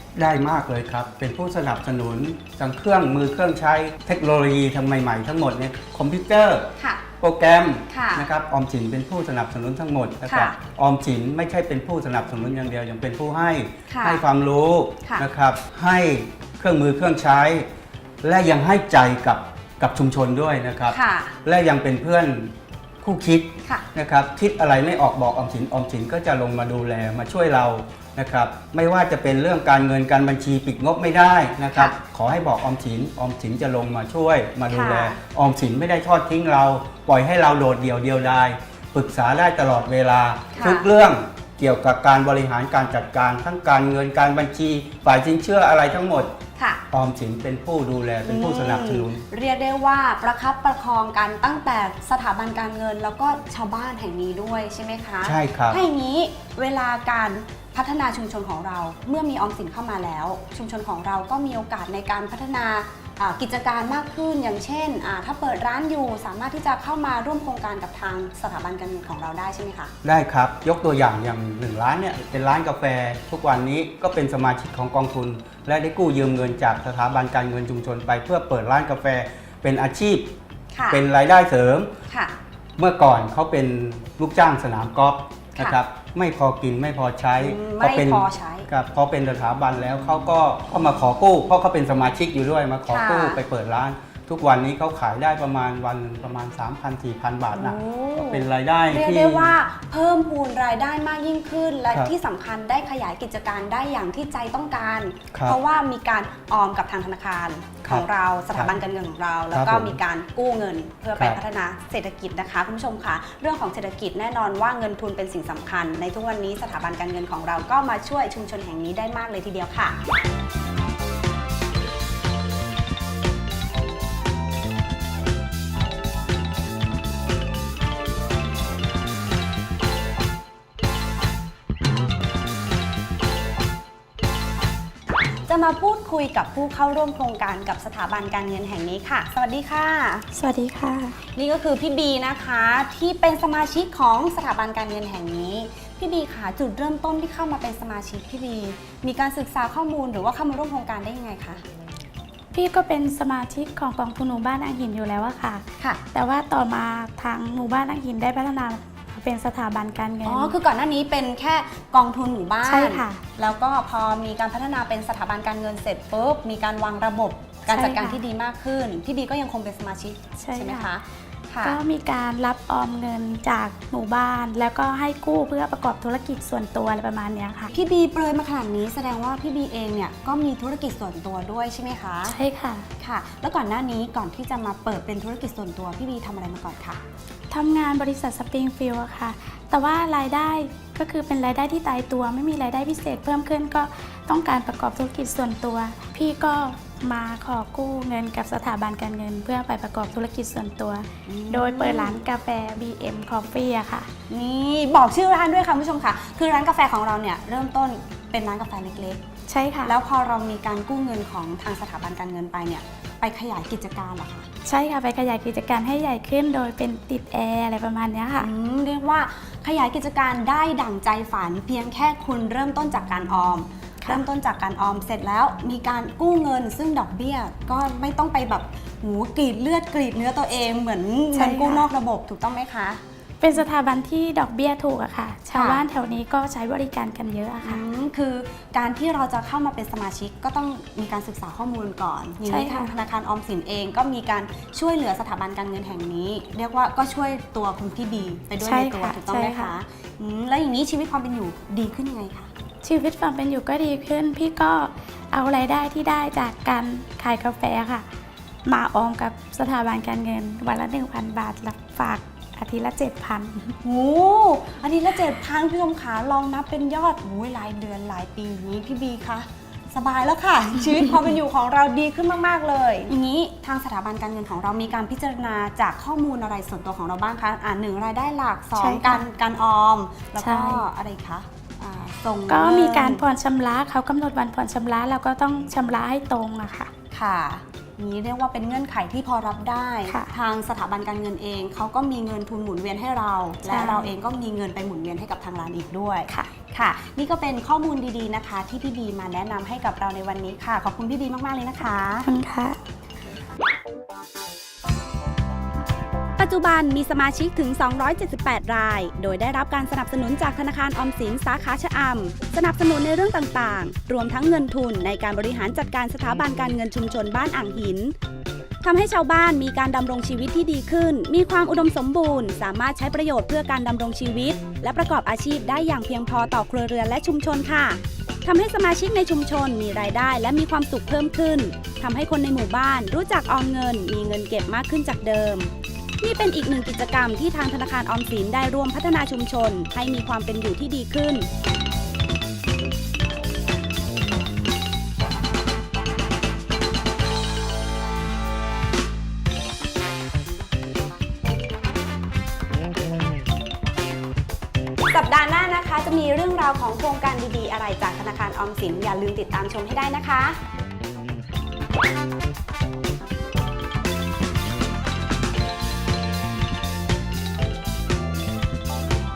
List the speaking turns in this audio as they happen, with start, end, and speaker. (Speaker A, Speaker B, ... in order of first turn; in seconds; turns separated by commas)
Speaker A: 0.1-6.7, Speaker B: 6.8-7.0, Speaker A: 7.2-17.7, Speaker B: 7.9-8.3, Speaker B: 10.2-10.6, Speaker B: 13.9-14.2, Speaker A: 18.2-46.3, Speaker B: 20.9-21.4, Speaker B: 31.7-32.0, Speaker B: 34.7-35.2, Speaker B: 40.5-40.9, Speaker B: 46.5-46.8, Speaker A: 46.9-49.2, Speaker B: 48.2-69.9, Speaker A: 55.2-55.8, Speaker A: 70.0-80.3, Speaker B: 80.7-81.0, Speaker A: 80.9-81.9, Speaker B: 82.1-82.3, Speaker A: 82.8-99.5, Speaker B: 85.5-85.8, Speaker B: 87.4-88.7, Speaker B: 92.9-93.4, Speaker B: 97.5-120.0, Speaker A: 107.8-108.8, Speaker A: 109.5-110.0, Speaker B: 135.5-140.2, Speaker C: 140.3-141.2, Speaker B: 141.3-151.6, Speaker C: 152.5-160.5, Speaker B: 160.2-171.8, Speaker C: 162.6-163.2, Speaker C: 167.7-168.2, Speaker C: 170.4-170.9, Speaker C: 171.6-177.7, Speaker B: 177.7-182.4, Speaker C: 182.2-182.9, Speaker B: 183.0-187.0, Speaker C: 187.5-204.1, Speaker B: 201.2-202.2, Speaker B: 204.3-209.2, Speaker C: 209.5-209.9, Speaker B: 209.8-214.5, Speaker C: 214.7-218.5, Speaker B: 218.3-233.0, Speaker C: 231.3-231.9, Speaker C: 233.4-237.8, Speaker B: 235.5-235.8, Speaker B: 237.6-252.5, Speaker C: 242.4-242.9, Speaker C: 248.6-249.7, Speaker C: 252.8-258.1, Speaker C: 258.6-263.8, Speaker B: 263.8-283.2, Speaker C: 278.8-279.2, Speaker C: 280.4-280.8, Speaker C: 282.5-286.9, Speaker B: 287.1-302.3, Speaker C: 293.6-294.1, Speaker C: 302.2-302.8, Speaker B: 306.4-318.1, Speaker B: 318.8-341.5, Speaker B: 355.1-360.6